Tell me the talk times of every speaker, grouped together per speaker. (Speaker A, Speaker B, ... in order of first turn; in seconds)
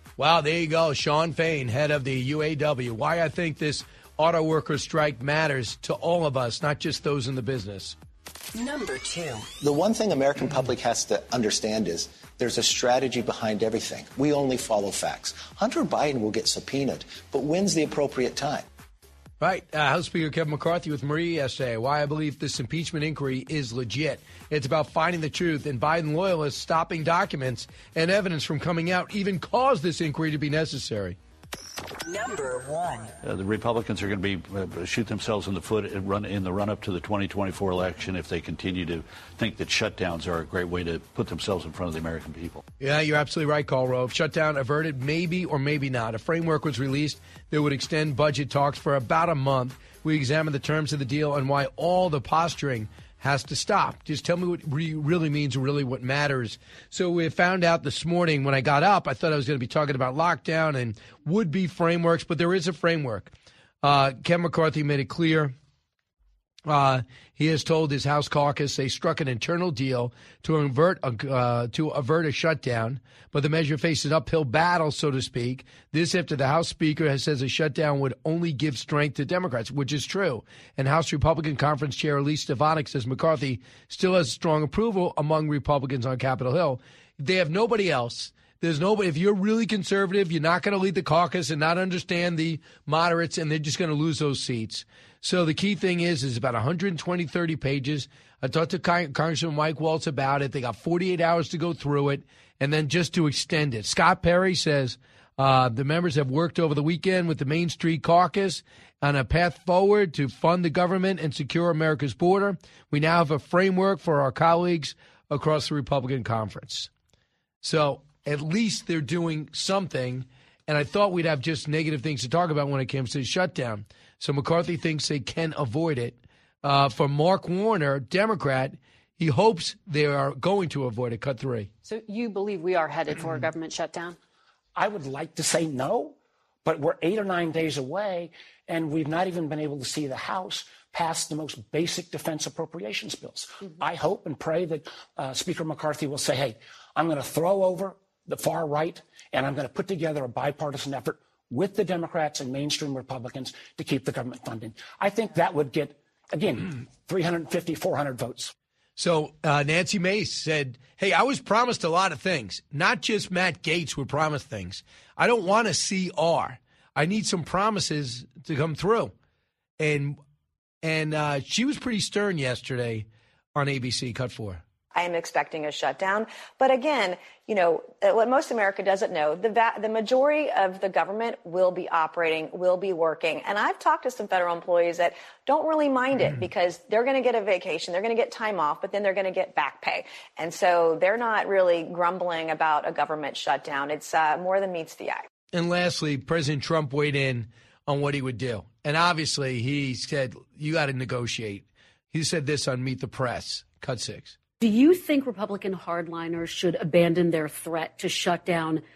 Speaker A: 0.2-8.0, 19.4-31.2, 42.8-65.5, 66.7-116.9, 117.6-131.7, 159.0-169.1, 169.8-170.2, 170.8-174.6, 195.5-204.4
Speaker B: 8.6-9.5, 32.0-33.2
Speaker C: 9.6-18.6
Speaker D: 33.2-42.6
Speaker E: 131.8-134.2
Speaker F: 134.8-158.5
Speaker G: 174.9-195.3
Speaker H: 204.7-208.7